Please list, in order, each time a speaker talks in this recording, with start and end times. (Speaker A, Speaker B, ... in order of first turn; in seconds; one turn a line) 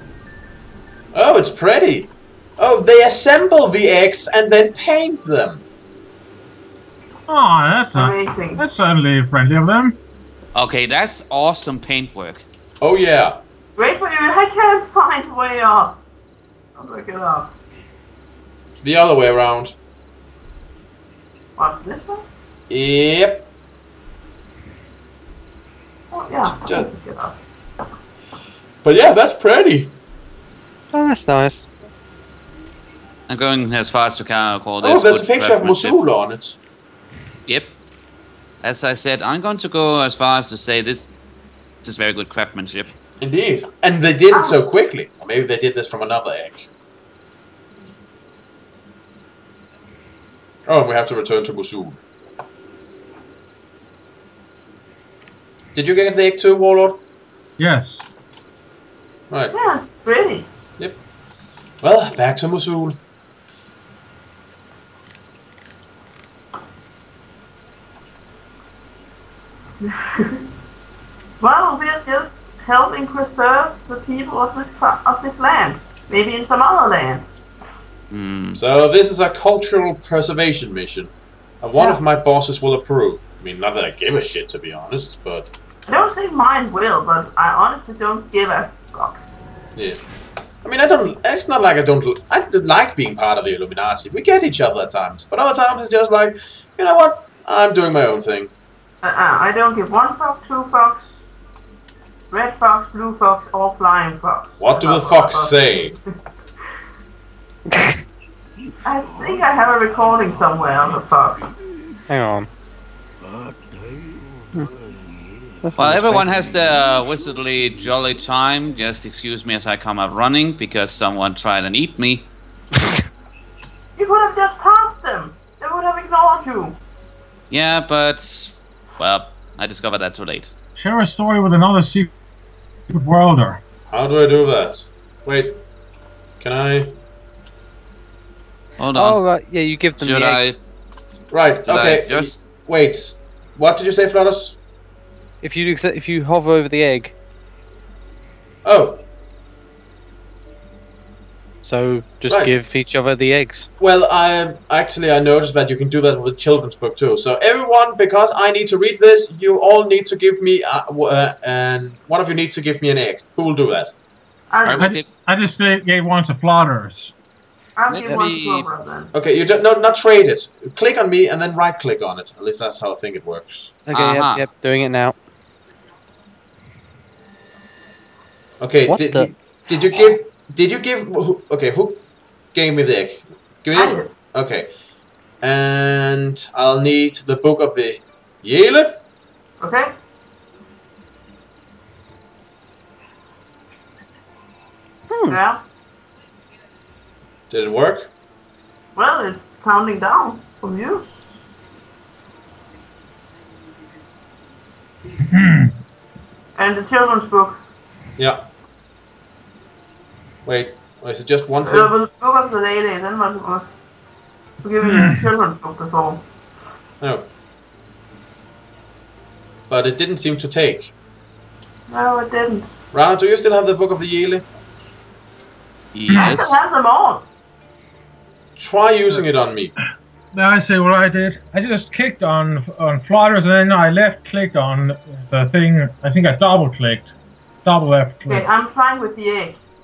Speaker A: 1.1-5.6
Speaker B: 7.3-10.0
Speaker C: 7.9-8.6
Speaker D: 10.6-12.4
Speaker A: 12.8-13.4
Speaker C: 13.8-16.0
Speaker C: 16.8-17.5
Speaker A: 18.8-19.8
Speaker C: 21.6-22.2
Speaker A: 22.7-23.5
Speaker C: 26.1-27.4
Speaker A: 26.4-26.9
Speaker A: 28.8-29.9
Speaker E: 30.9-31.7
Speaker D: 33.3-36.0
Speaker A: 34.8-36.6
Speaker D: 37.5-37.7
Speaker D: 38.6-41.1
Speaker D: 41.8-42.9
Speaker A: 43.2-46.7
Speaker C: 44.3-44.6
Speaker A: 50.7-52.0
Speaker A: 55.7-57.0
Speaker B: 57.6-58.0
Speaker C: 59.5-60.5
Speaker A: 61.8-63.0
Speaker C: 69.8-70.5
Speaker C: 71.4-77.4
Speaker D: 78.1-78.6
Speaker A: 78.6-85.5
Speaker C: 85.9-89.2
Speaker A: 90.6-98.5
Speaker C: 99.0-101.2
Speaker C: 102.3-106.0
Speaker A: 104.6-106.0
Speaker C: 108.8-111.6
Speaker E: 112.1-112.5
Speaker E: 115.6-116.4
Speaker D: 115.8-122.3
Speaker C: 124.0-126.8
Speaker D: 127.5-130.5
Speaker B: 130.8-132.1
Speaker B: 132.9-133.6
Speaker A: 133.9-135.6
Speaker A: 136.4-136.9
Speaker D: 138.8-139.2
Speaker E: 138.9-140.4
Speaker D: 140.0-140.6
Speaker A: 141.3-144.6
Speaker D: 141.7-142.4
Speaker E: 145.4-147.2
Speaker A: 148.7-149.0
Speaker E: 151.6-153.7
Speaker A: 152.3-152.5
Speaker A: 153.8-163.9
Speaker C: 164.5-164.9
Speaker D: 164.6-165.1
Speaker B: 164.8-167.1
Speaker C: 167.8-169.1
Speaker D: 167.9-168.7
Speaker A: 169.1-173.7
Speaker E: 173.9-175.2
Speaker D: 173.9-174.4
Speaker A: 178.6-182.0
Speaker E: 178.9-179.3
Speaker A: 182.5-184.7
Speaker C: 183.7-184.1
Speaker A: 185.4-188.9
Speaker C: 189.6-189.9
Speaker E: 195.1-195.4
Speaker C: 195.3-195.6
Speaker A: 197.5-198.1
Speaker C: 199.0-201.3
Speaker B: 205.3-205.7
Speaker C: 206.6-207.6
Speaker A: 208.2-208.5
Speaker A: 210.4-211.9
Speaker C: 211.6-213.7
Speaker C: 214.6-216.2
Speaker B: 214.8-215.2
Speaker A: 217.0-217.3
Speaker A: 219.7-220.9
Speaker C: 221.9-222.7
Speaker A: 222.9-224.4
Speaker D: 225.9-226.6
Speaker B: 226.1-226.4
Speaker C: 226.1-227.2
Speaker A: 228.6-229.7
Speaker B: 230.3-237.1
Speaker B: 237.7-238.4
Speaker C: 238.2-239.6